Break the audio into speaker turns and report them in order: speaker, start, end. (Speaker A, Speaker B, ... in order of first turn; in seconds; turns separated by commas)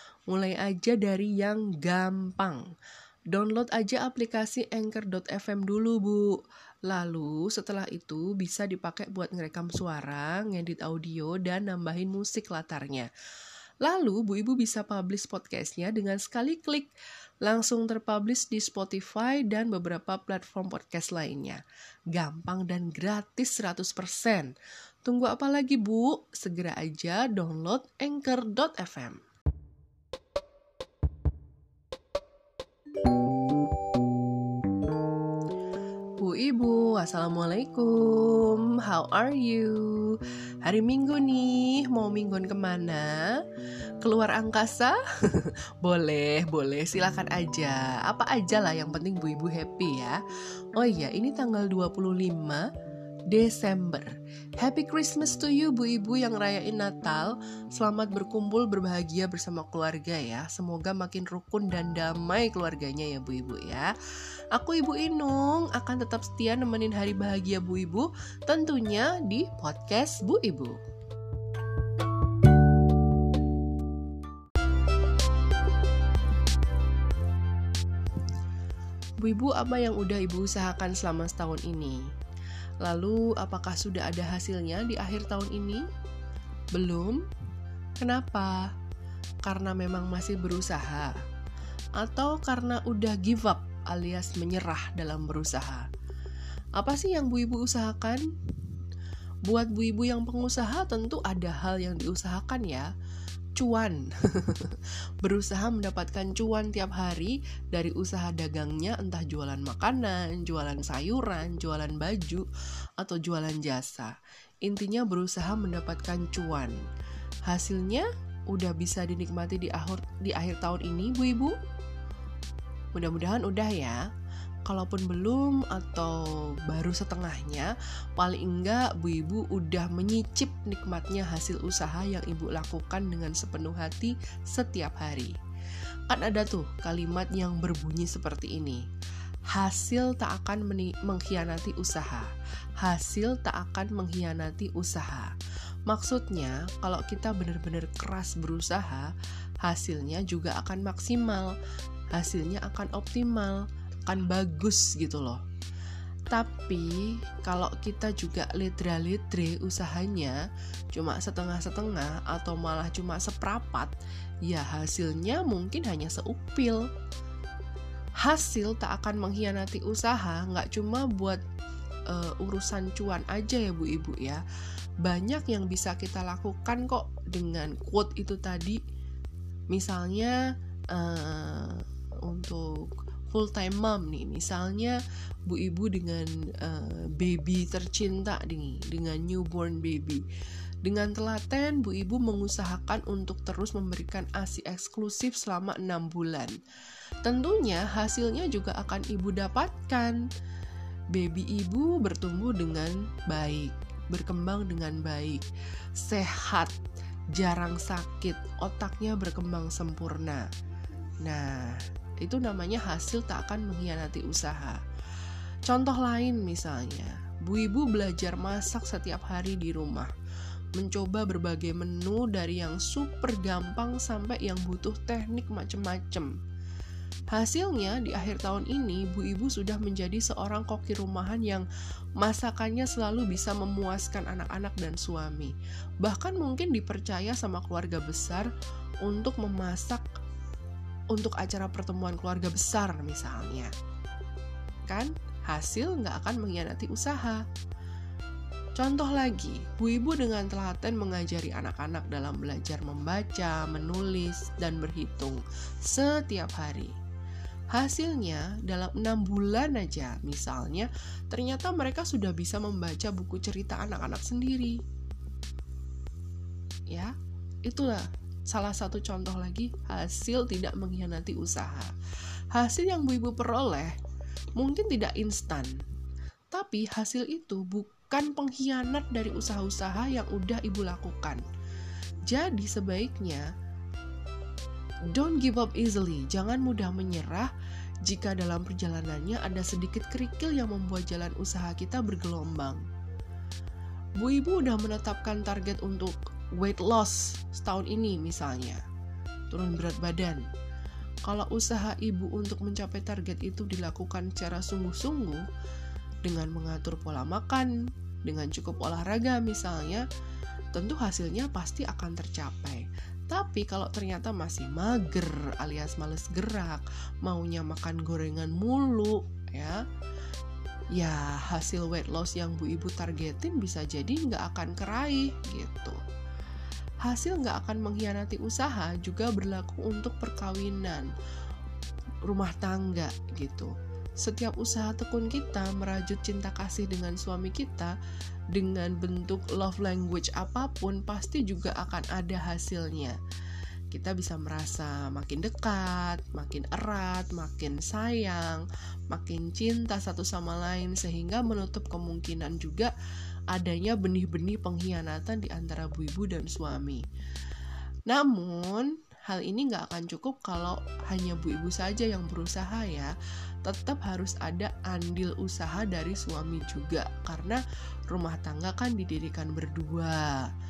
Speaker A: 0.3-2.6, Speaker A: 3.3-13.1, Speaker A: 13.8-16.9, Speaker A: 17.4-21.6, Speaker A: 22.1-24.5, Speaker A: 25.0-29.2, Speaker A: 36.2-43.4, Speaker A: 44.0-50.2, Speaker A: 50.7-52.6, Speaker A: 53.3-63.9, Speaker A: 64.5-70.8, Speaker A: 79.2-82.0, Speaker A: 82.8-85.8, Speaker A: 86.7-87.2, Speaker A: 88.0-88.7, Speaker A: 89.4-91.1, Speaker A: 92.0-95.8, Speaker A: 96.8-98.2, Speaker A: 99.5-102.9, Speaker A: 103.6-114.1, Speaker A: 114.6-116.8, Speaker A: 117.5-121.5, Speaker A: 122.9-124.0, Speaker A: 124.7-135.3, Speaker A: 136.1-138.8, Speaker A: 139.5-145.3, Speaker A: 145.9-149.1, Speaker A: 149.6-151.5, Speaker A: 152.1-155.4, Speaker A: 156.3-160.4, Speaker A: 160.9-163.9, Speaker A: 164.4-166.8, Speaker A: 168.2-171.4, Speaker A: 172.1-174.4, Speaker A: 175.0-178.8, Speaker A: 179.7-180.4, Speaker A: 180.9-190.2, Speaker A: 190.8-196.6, Speaker A: 197.2-200.2, Speaker A: 201.1-206.7, Speaker A: 207.3-210.5, Speaker A: 211.2-214.8, Speaker A: 215.7-220.1, Speaker A: 220.8-226.3, Speaker A: 227.3-231.7, Speaker A: 232.2-238.5, Speaker A: 239.0-240.0, Speaker A: 241.1-243.7, Speaker A: 244.9-247.4, Speaker A: 248.8-256.9, Speaker A: 257.7-264.8, Speaker A: 267.6-271.9, Speaker A: 272.5-273.9, Speaker A: 274.6-275.8, Speaker A: 276.5-281.4, Speaker A: 282.3-283.5, Speaker A: 285.1-287.5, Speaker A: 288.0-292.8, Speaker A: 294.2-298.8, Speaker A: 299.5-300.4, Speaker A: 301.3-305.4, Speaker A: 306.2-307.7, Speaker A: 308.2-310.1, Speaker A: 310.7-319.8, Speaker A: 320.9-326.0, Speaker A: 327.0-331.1, Speaker A: 332.2-337.9, Speaker A: 338.5-343.2, Speaker A: 343.9-352.9, Speaker A: 353.5-357.0, Speaker A: 358.1-363.1, Speaker A: 363.6-370.5